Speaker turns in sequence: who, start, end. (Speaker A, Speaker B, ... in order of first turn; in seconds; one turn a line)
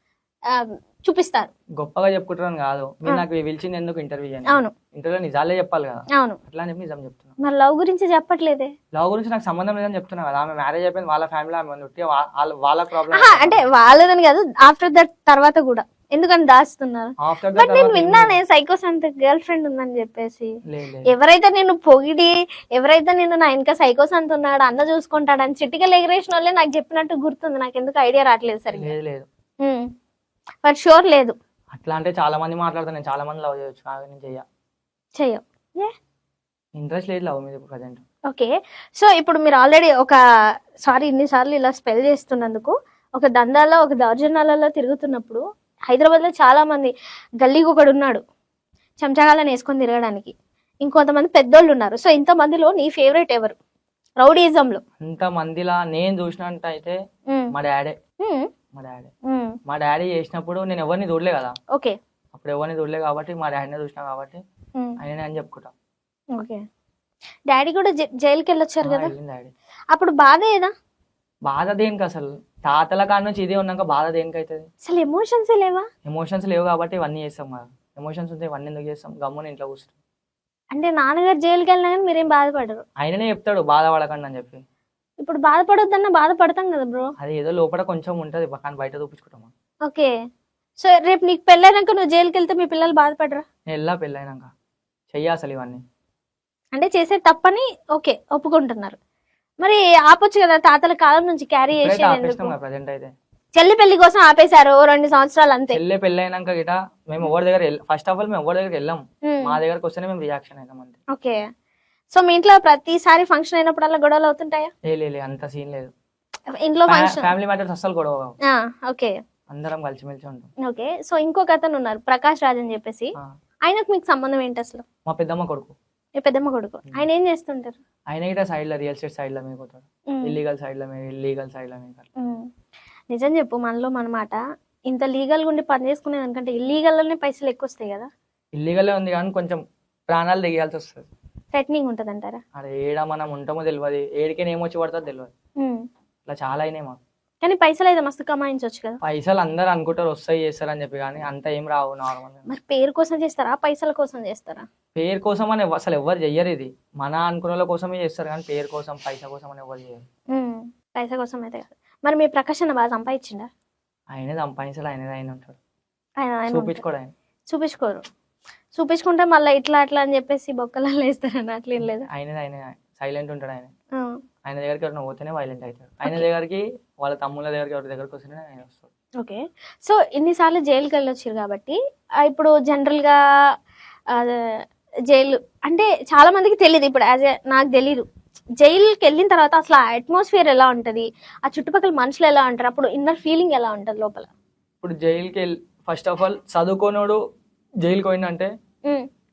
Speaker A: 0.5-1.5
Speaker B: 1.8-7.3
Speaker A: 7.4-8.7
Speaker B: 8.9-13.7
Speaker A: 13.1-20.5
Speaker B: 17.2-18.4
Speaker B: 20.7-21.1
Speaker A: 21.1-28.9
Speaker B: 28.7-29.3
Speaker A: 29.6-29.9
Speaker A: 30.6-31.4
Speaker B: 31.7-34.5
Speaker A: 35.2-35.9
Speaker B: 36.8-38.0
Speaker A: 38.3-40.2
Speaker A: 40.9-48.2
Speaker A: 49.0-53.6
Speaker A: 54.2-54.8
Speaker B: 55.0-57.0
Speaker B: 57.5-58.0
Speaker A: 58.2-58.5
Speaker B: 58.7-59.1
Speaker A: 59.3-59.6
Speaker B: 59.7-61.6
Speaker B: 62.3-64.4
Speaker B: 65.0-65.7
Speaker A: 66.3-66.6
Speaker A: 67.5-69.1
Speaker B: 68.8-69.5
Speaker A: 69.9-70.7
Speaker B: 71.5-74.7
Speaker A: 74.9-75.9
Speaker B: 76.1-79.9
Speaker A: 80.7-82.8
Speaker B: 83.0-84.6
Speaker A: 85.2-87.1
Speaker B: 87.2-89.5
Speaker A: 89.8-90.1
Speaker A: 90.8-93.5
Speaker B: 93.7-94.5
Speaker B: 95.1-95.8
Speaker A: 96.7-99.0
Speaker A: 99.6-102.5
Speaker B: 101.8-103.1
Speaker A: 103.6-105.8
Speaker B: 105.7-111.0
Speaker A: 109.2-109.6
Speaker A: 111.1-111.4
Speaker A: 112.1-114.7
Speaker B: 114.9-115.9
Speaker A: 116.6-117.3
Speaker B: 116.9-118.3
Speaker A: 118.5-119.2
Speaker B: 119.5-120.5
Speaker A: 120.6-123.1
Speaker A: 123.7-124.8
Speaker B: 125.1-125.8
Speaker A: 126.2-127.8
Speaker B: 128.1-132.1
Speaker A: 130.1-130.4
Speaker A: 132.2-132.5
Speaker A: 133.1-138.1
Speaker B: 138.6-141.1
Speaker A: 141.5-142.4
Speaker B: 142.6-145.3
Speaker A: 145.6-145.8
Speaker B: 146.3-147.0
Speaker A: 147.4-149.0
Speaker B: 149.0-152.5
Speaker A: 152.5-154.7
Speaker B: 154.9-160.0
Speaker A: 160.3-163.5
Speaker B: 164.1-165.6
Speaker A: 166.2-166.8
Speaker B: 166.5-167.1
Speaker A: 167.5-168.0
Speaker A: 168.8-172.1
Speaker B: 171.8-173.7
Speaker B: 174.4-178.9
Speaker A: 179.2-183.2
Speaker A: 184.1-184.5
Speaker A: 185.1-188.1
Speaker A: 188.6-194.3
Speaker B: 194.8-197.2
Speaker B: 197.8-198.5